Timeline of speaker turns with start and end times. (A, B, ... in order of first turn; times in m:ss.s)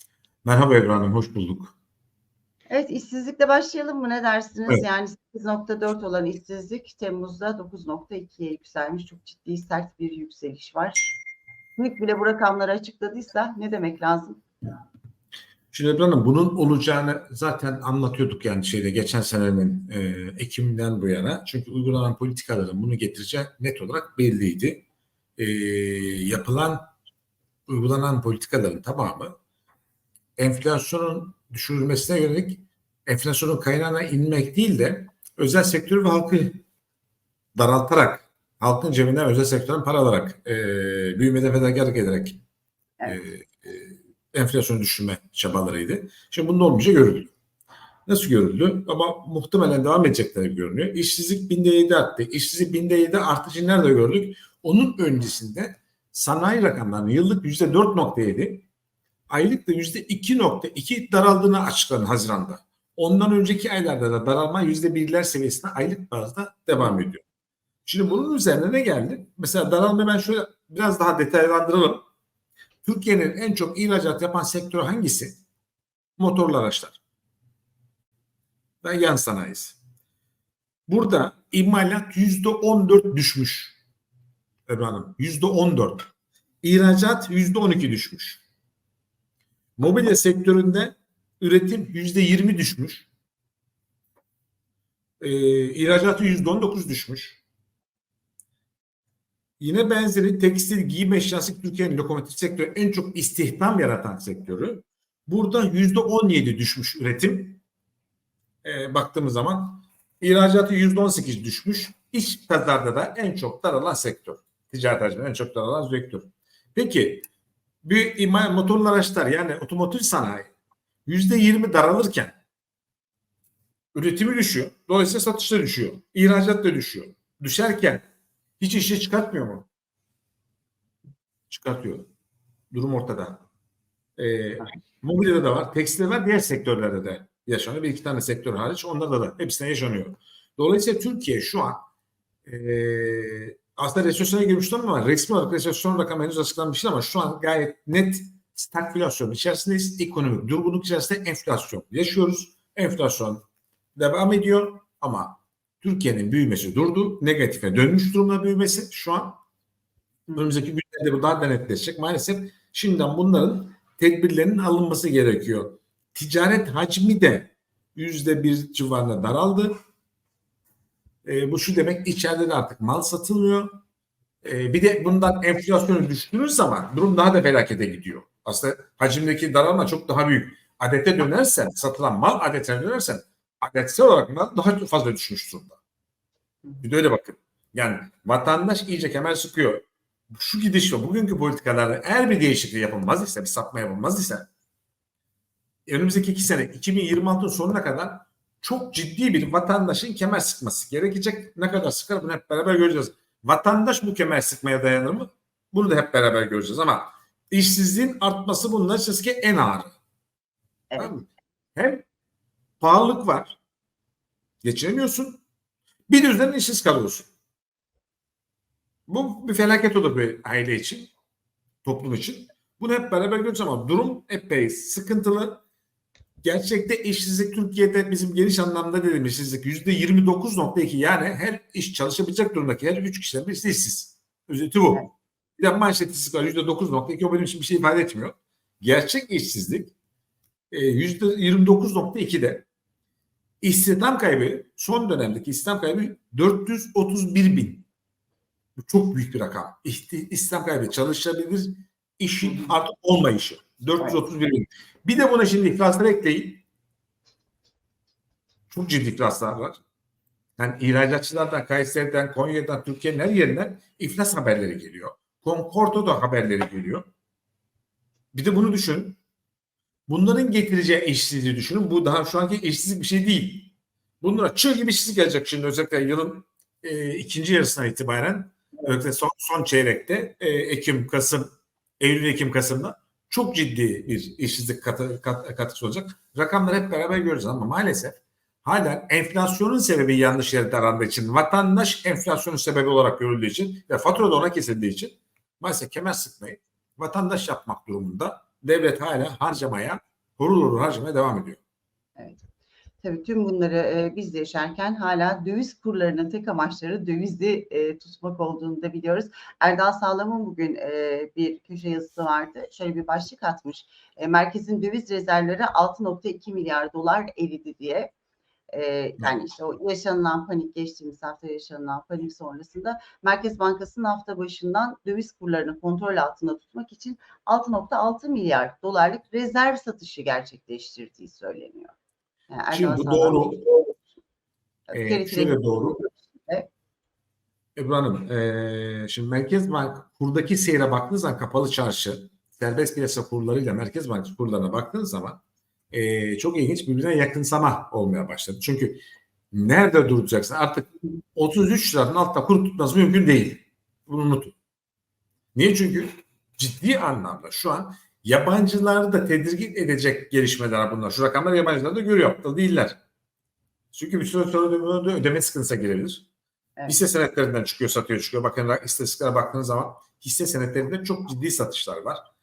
0:00.4-0:01.8 A
0:02.7-0:11.2 B
0:11.8-0:14.4 B
0:15.7-0:24.8 A
0:25.4-0:26.9 A
0:27.7-0:29.4 A
0:30.4-0:36.6 A
0:37.6-0:42.4 A
0:43.1-0:47.3 A
0:48.1-0:58.7 A
0:59.3-1:07.2 A
1:06.8-1:07.1 B
1:07.9-1:12.0 A
1:12.8-1:15.4 A
1:16.2-1:17.0 A
1:18.8-1:19.8 A
1:20.9-1:23.8 A
1:24.7-1:26.1 A
1:26.6-1:28.4 A
1:29.8-1:33.1 A
1:35.2-1:37.4 A
1:39.6-1:47.6 A
1:48.6-1:57.3 A
1:57.8-2:00.5 A
2:01.1-2:02.4 A
2:03.9-2:08.0 A
2:08.6-2:09.7 A
2:11.5-2:12.1 A
2:12.7-2:13.4 A
2:14.2-2:21.9 A
2:22.5-2:33.4 A
2:34.0-2:39.4 A
2:40.3-2:40.5 B
2:40.4-2:49.7 A
2:51.2-2:53.8 A
2:54.4-3:05.8 A
3:06.8-3:14.5 A
3:15.9-3:30.0 A
3:30.9-3:31.2 B
3:31.0-3:32.0 A
3:32.8-3:33.6 A
3:34.6-3:35.4 A
3:36.1-3:37.3 A
3:39.1-3:41.1 A
3:41.8-3:45.6 A
3:46.4-3:55.1 A
3:55.6-3:59.9 A
4:00.7-4:02.7 A
4:03.6-4:07.9 A
4:08.8-4:16.6 A
4:12.4-4:12.7 B
4:18.7-4:19.8 A
4:20.6-4:27.0 A
4:28.3-4:29.2 A
4:30.1-5:01.6 A
5:02.2-5:02.4 B
5:03.0-5:18.1 B
5:18.7-5:32.0 B
5:32.5-5:34.0 B
5:32.7-5:33.8 A
5:34.9-5:36.7 B
5:34.9-5:36.0 A
5:37.8-5:49.0 A
5:49.5-5:54.6 A
5:55.6-6:03.0 A
6:03.9-6:06.3 A
6:06.8-6:07.0 B
6:06.9-6:12.3 A